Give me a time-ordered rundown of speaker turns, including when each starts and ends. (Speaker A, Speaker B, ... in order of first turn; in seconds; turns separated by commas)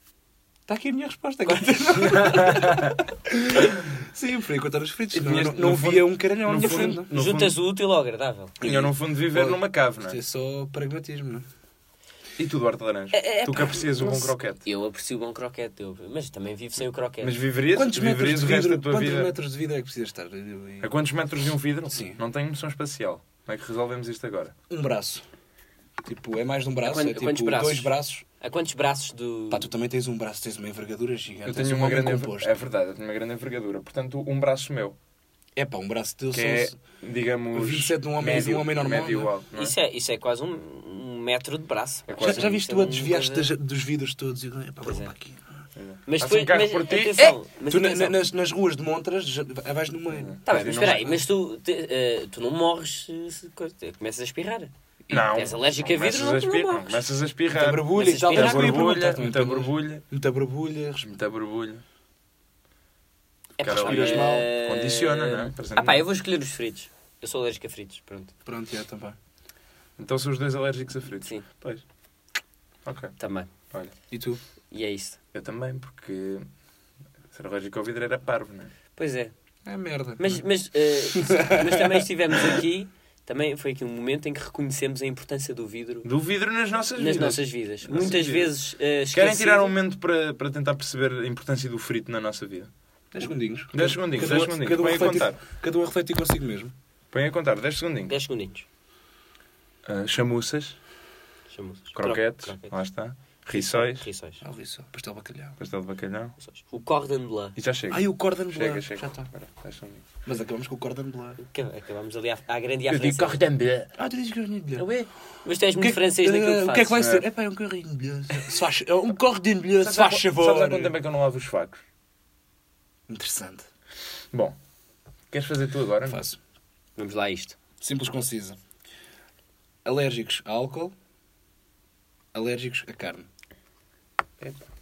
Speaker A: 0.7-7.1, Speaker B: 1.5-2.5, Speaker C: 2.1-2.9, Speaker C: 5.1-7.6, Speaker B: 6.7-8.7, Speaker C: 8.6-10.2, Speaker A: 8.6-11.4, Speaker C: 12.4-14.6, Speaker B: 13.1-17.4, Speaker C: 17.2-19.3, Speaker A: 17.7-20.9, Speaker C: 20.8-24.5, Speaker A: 21.9-22.2, Speaker A: 24.7-25.2, Speaker A: 26.0-28.2, Speaker B: 26.8-29.7, Speaker A: 29.5-32.6, Speaker C: 31.4-35.0, Speaker A: 35.5-36.8, Speaker C: 36.3-39.8, Speaker A: 37.5-39.3, Speaker B: 39.5-43.5, Speaker C: 42.1-42.5, Speaker A: 42.2-45.6, Speaker B: 44.8-45.1, Speaker C: 45.8-47.2, Speaker B: 46.1-48.2, Speaker A: 47.1-50.5, Speaker C: 50.1-51.2, Speaker B: 50.5-54.7, Speaker C: 55.1-60.0, Speaker B: 55.3-57.0, Speaker A: 57.5-61.0, Speaker B: 57.9-58.9, Speaker C: 61.0-61.8, Speaker B: 63.6-68.3, Speaker C: 63.6-66.1, Speaker A: 63.7-64.5, Speaker A: 68.5-69.2, Speaker C: 70.0-71.8, Speaker C: 72.8-73.1, Speaker B: 73.2-73.5, Speaker A: 74.1-74.4, Speaker B: 74.7-75.2, Speaker C: 75.3-76.4, Speaker C: 77.3-78.7, Speaker B: 79.0-79.3, Speaker A: 79.7-80.4, Speaker B: 80.2-86.1, Speaker A: 81.2-81.7, Speaker C: 86.0-88.5, Speaker B: 87.0-89.7, Speaker C: 89.1-92.7, Speaker A: 93.1-96.7, Speaker C: 93.7-95.4, Speaker C: 97.1-98.2, Speaker B: 98.1-98.6, Speaker C: 99.8-100.8, Speaker B: 101.5-102.7, Speaker C: 101.9-104.1, Speaker B: 103.5-104.4, Speaker A: 104.4-105.6, Speaker C: 105.6-106.3, Speaker B: 106.4-107.5, Speaker C: 107.5-110.0, Speaker A: 107.9-109.3, Speaker A: 110.2-111.4, Speaker B: 111.4-113.4, Speaker C: 112.9-113.9, Speaker A: 114.0-114.9, Speaker C: 114.8-115.1, Speaker B: 115.4-117.0, Speaker A: 115.8-120.9, Speaker C: 117.0-117.2, Speaker C: 119.8-121.8, Speaker A: 123.1-123.7, Speaker C: 125.3-126.2, Speaker A: 126.0-126.4, Speaker B: 127.0-127.5, Speaker A: 127.8-128.6, Speaker A: 129.8-130.9, Speaker A: 132.3-133.3, Speaker C: 134.4-134.6